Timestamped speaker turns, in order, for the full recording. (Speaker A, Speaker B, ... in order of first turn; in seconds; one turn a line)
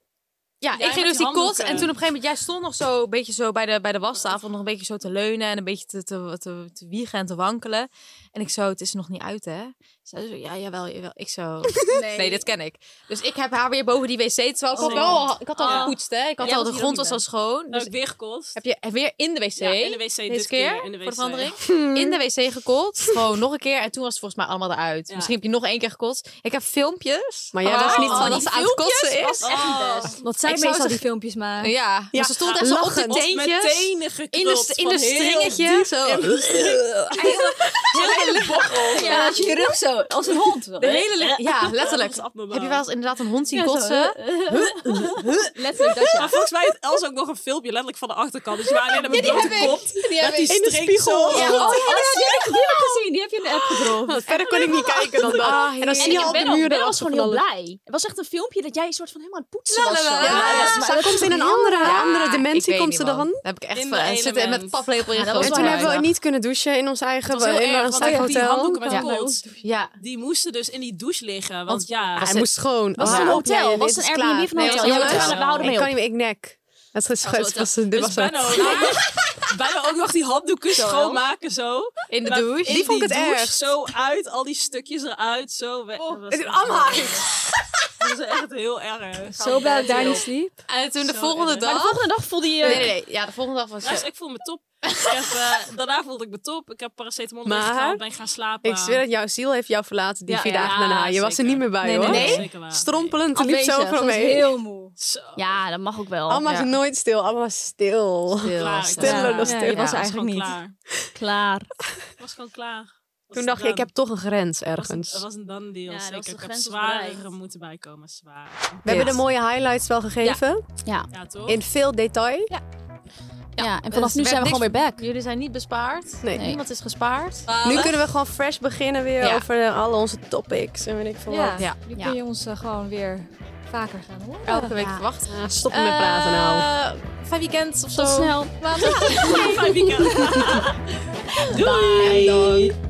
Speaker A: 0.6-17.9
Speaker B: 0.7-1.9
Speaker C: 11.9-12.5
Speaker C: 14.7-17.2
Speaker B: 14.8-15.9
Speaker D: 14.9-15.2
Speaker B: 17.7-18.6
Speaker A: 18.6-29.5
Speaker B: 19.6-21.6
Speaker D: 21.6-22.2
Speaker B: 25.1-25.3
Speaker D: 27.5-28.9
Speaker B: 27.8-28.4
Speaker C: 27.9-30.2
Speaker B: 29.4-30.2
Speaker E: 30.2-31.7
Speaker A: 30.4-31.0
Speaker A: 31.6-39.3
Speaker D: 32.1-33.3
Speaker B: 32.4-35.3
Speaker D: 35.6-37.4
Speaker B: 36.0-36.8
Speaker B: 37.9-39.5
Speaker C: 38.9-39.6
Speaker E: 39.0-41.1
Speaker A: 40.8-45.3
Speaker B: 40.8-42.8
Speaker E: 43.5-44.8
Speaker C: 45.5-46.3
Speaker B: 46.1-52.1
Speaker A: 49.1-50.5
Speaker C: 49.1-49.6
Speaker D: 49.2-49.6
Speaker D: 50.5-52.5
Speaker C: 51.4-55.4
Speaker A: 51.4-52.3
Speaker E: 52.6-54.2
Speaker D: 53.9-57.4
Speaker A: 55.2-56.6
Speaker C: 56.0-62.0
Speaker A: 59.7-66.1
Speaker D: 60.2-63.4
Speaker B: 60.2-60.7
Speaker B: 63.7-64.9
Speaker C: 65.1-66.0
Speaker D: 65.4-68.8
Speaker B: 67.2-69.4
Speaker E: 68.0-69.6
Speaker A: 69.6-69.9
Speaker B: 70.0-72.4
Speaker A: 71.7-72.5
Speaker D: 72.2-78.7
Speaker C: 73.0-75.9
Speaker A: 73.0-73.4
Speaker A: 74.5-75.6
Speaker B: 74.9-75.7
Speaker A: 77.2-77.8
Speaker B: 77.9-87.3
Speaker A: 78.5-79.1
Speaker C: 78.6-79.0
Speaker C: 80.8-81.2
Speaker A: 82.1-83.1
Speaker D: 82.7-83.6
Speaker D: 86.3-87.5
Speaker B: 88.0-90.2
Speaker C: 89.3-90.3
Speaker E: 89.3-90.6
Speaker A: 90.7-92.1
Speaker B: 91.0-91.8
Speaker C: 91.6-92.9
Speaker A: 92.6-94.1
Speaker B: 93.8-99.0
Speaker A: 94.8-95.4
Speaker D: 97.5-98.0
Speaker D: 98.6-104.6
Speaker C: 100.3-101.0
Speaker B: 100.4-103.2
Speaker E: 101.8-102.4
Speaker A: 102.0-102.5
Speaker E: 103.3-104.9
Speaker B: 105.0-105.6
Speaker C: 105.3-106.4
Speaker D: 106.3-109.9
Speaker A: 106.4-106.8
Speaker A: 108.4-110.1
Speaker B: 108.5-110.8
Speaker E: 109.0-110.5
Speaker C: 111.2-111.7
Speaker B: 112.2-113.9
Speaker D: 113.3-115.2
Speaker B: 114.7-118.8
Speaker C: 115.9-117.3
Speaker D: 118.8-120.6
Speaker A: 118.8-119.2
Speaker C: 120.2-121.1
Speaker B: 121.1-121.6
Speaker D: 121.5-122.5
Speaker A: 123.5-128.0
Speaker C: 123.6-125.0
Speaker D: 126.2-126.5
Speaker C: 126.3-126.6
Speaker D: 127.6-131.7
Speaker A: 129.2-129.4
Speaker E: 131.3-134.7
Speaker C: 131.9-132.2
Speaker A: 134.4-139.5
Speaker C: 134.7-135.1
Speaker D: 135.2-136.7
Speaker C: 137.9-140.2
Speaker B: 138.8-140.8
Speaker C: 141.3-142.4
Speaker B: 141.4-142.7
Speaker E: 142.0-142.7
Speaker A: 142.0-142.3